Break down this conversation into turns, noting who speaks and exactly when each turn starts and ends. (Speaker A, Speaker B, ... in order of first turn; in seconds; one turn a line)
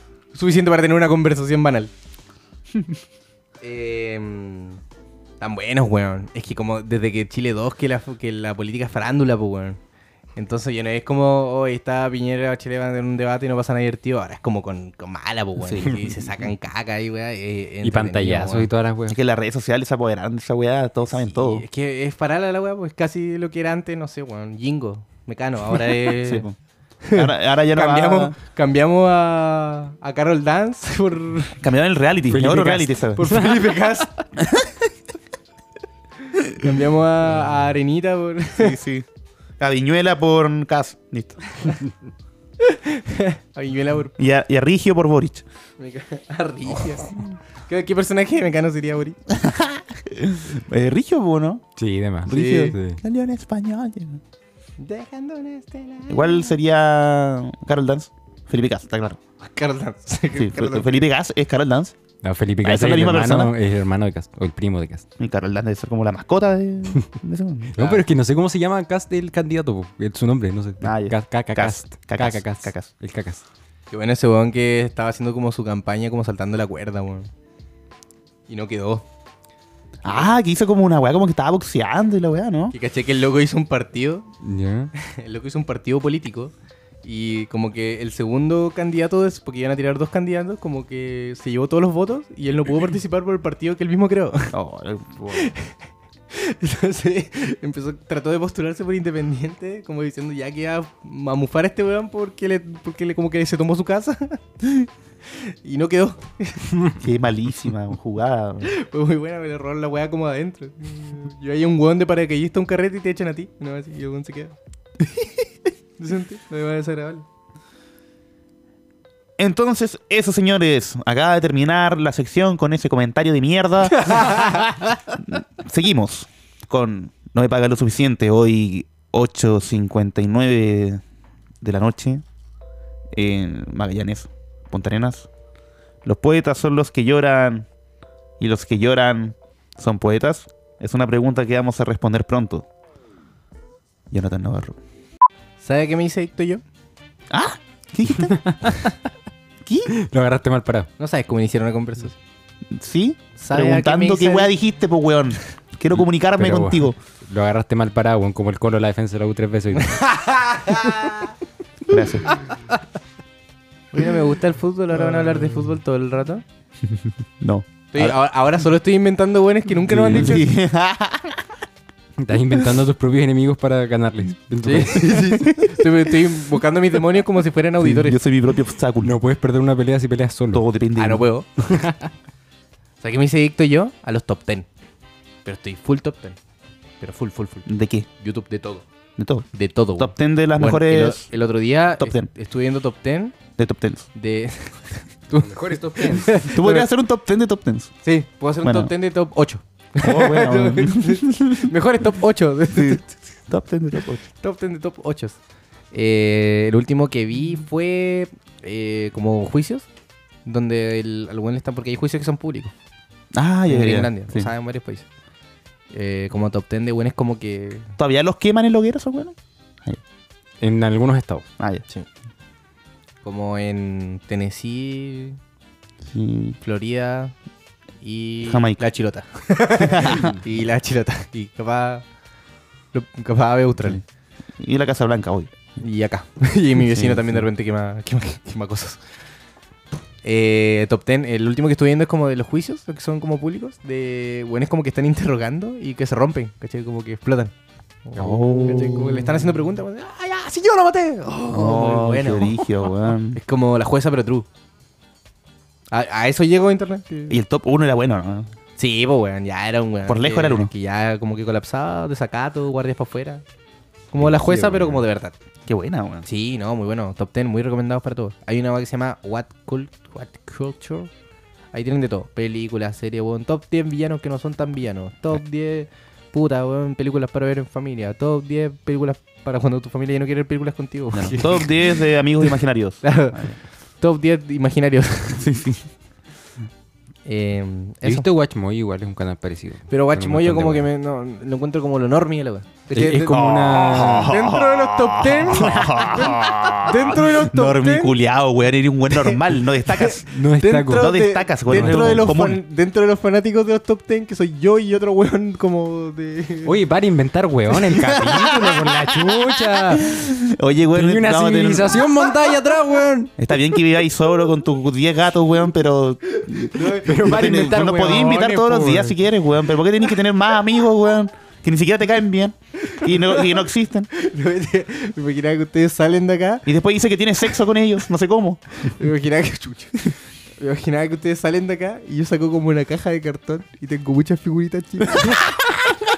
Speaker A: 0.3-1.9
Speaker A: 3.6-4.8
Speaker A: 5.4-9.8
Speaker A: 10.3-18.7
Speaker B: 15.6-15.9
Speaker C: 17.8-19.1
Speaker B: 19.1-21.6
Speaker A: 21.1-26.5
Speaker B: 26.1-26.6
Speaker A: 27.0-31.6
Speaker B: 27.1-28.3
Speaker B: 31.6-33.2
Speaker C: 32.3-34.0
Speaker A: 33.2-34.3
Speaker B: 34.4-34.9
Speaker A: 36.5-38.8
Speaker B: 38.6-39.0
Speaker B: 39.6-41.4
Speaker A: 42.6-44.1
Speaker B: 44.2-45.4
Speaker A: 45.8-49.2
Speaker B: 49.3-51.6
Speaker C: 51.8-53.0
Speaker B: 52.2-54.2
Speaker A: 52.3-52.8
Speaker A: 54.8-56.6
Speaker B: 56.1-59.2
Speaker A: 59.4-61.0
Speaker B: 60.3-61.9
Speaker C: 62.2-65.0
Speaker B: 62.6-63.5
Speaker B: 65.2-67.8
Speaker C: 67.8-73.4
Speaker B: 70.8-72.9
Speaker A: 73.9-77.3
Speaker A: 78.5-79.0
Speaker B: 80.0-82.7
Speaker A: 82.7-84.3
Speaker C: 84.4-84.9
Speaker A: 85.0-86.5
Speaker A: 87.0-94.5
Speaker B: 94.5-95.5
Speaker A: 95.3-95.7
Speaker A: 96.3-104.4
Speaker A: 105.3-106.8
Speaker B: 106.9-108.7
Speaker A: 108.6-115.4
Speaker A: 116.0-117.2
Speaker B: 119.4-124.6
Speaker A: 124.0-124.7
Speaker B: 125.3-131.0
Speaker B: 131.6-132.2
Speaker B: 133.1-135.3
Speaker B: 136.0-137.7
Speaker B: 138.4-142.7
Speaker B: 144.1-144.8
Speaker A: 145.6-146.6
Speaker B: 147.3-148.4
Speaker C: 148.2-148.9
Speaker B: 149.7-149.9
Speaker C: 149.9-150.9
Speaker A: 151.0-152.2
Speaker B: 152.7-157.0
Speaker A: 153.4-154.5
Speaker C: 156.3-160.0
Speaker A: 159.8-161.3
Speaker B: 161.9-162.4
Speaker A: 163.9-166.4
Speaker B: 167.4-168.1
Speaker A: 167.9-170.5
Speaker B: 169.9-171.4
Speaker C: 169.9-170.4
Speaker C: 172.2-175.4
Speaker A: 174.6-178.2
Speaker B: 175.3-175.8
Speaker B: 177.8-179.2
Speaker C: 179.0-180.6
Speaker B: 180.5-181.3
Speaker A: 181.0-181.5
Speaker A: 183.0-184.7
Speaker A: 185.4-186.3
Speaker A: 187.0-187.7
Speaker B: 187.7-188.1
Speaker A: 188.2-188.8
Speaker B: 189.2-189.4
Speaker A: 189.5-193.3
Speaker B: 190.0-191.2
Speaker B: 192.0-192.3
Speaker B: 193.6-194.1
Speaker A: 194.1-196.9
Speaker C: 195.4-196.4
Speaker B: 196.5-197.9
Speaker A: 198.0-203.1
Speaker B: 198.6-198.9
Speaker B: 200.0-201.7
Speaker B: 202.7-204.2
Speaker A: 204.2-205.4
Speaker A: 205.9-209.8
Speaker A: 210.4-212.7
Speaker B: 213.3-214.5
Speaker A: 213.7-215.0
Speaker A: 215.9-217.9
Speaker B: 218.0-219.3
Speaker C: 220.6-221.5
Speaker B: 221.6-221.8
Speaker A: 223.2-225.4
Speaker B: 226.1-226.6
Speaker A: 226.6-227.3
Speaker A: 228.0-232.0
Speaker B: 228.4-228.8
Speaker B: 229.8-230.4
Speaker A: 232.9-234.0
Speaker B: 234.6-235.5
Speaker A: 235.8-239.0
Speaker B: 236.9-237.3
Speaker A: 240.2-247.5
Speaker A: 248.0-254.4
Speaker B: 248.2-249.4
Speaker B: 251.5-253.4
Speaker A: 255.9-257.4
Speaker B: 257.3-258.5
Speaker A: 258.8-263.4
Speaker B: 260.1-260.7
Speaker A: 264.1-265.3
Speaker C: 264.1-265.0
Speaker B: 265.7-266.2
Speaker A: 266.2-271.1
Speaker A: 271.7-285.5
Speaker B: 281.1-283.6
Speaker B: 285.4-285.8
Speaker A: 287.2-288.3
Speaker C: 288.0-290.9
Speaker A: 289.9-298.1
Speaker C: 292.9-294.4
Speaker B: 293.3-300.3
Speaker C: 295.6-295.9
Speaker A: 299.1-306.8
Speaker C: 300.3-301.1
Speaker B: 300.9-302.6
Speaker C: 301.7-302.3
Speaker C: 306.6-310.2
Speaker B: 308.1-308.9
Speaker B: 309.9-312.1
Speaker C: 310.9-313.3
Speaker B: 313.4-324.1
Speaker A: 316.6-317.9
Speaker C: 317.0-319.1
Speaker A: 322.9-326.7
Speaker B: 326.6-328.6
Speaker A: 328.8-335.5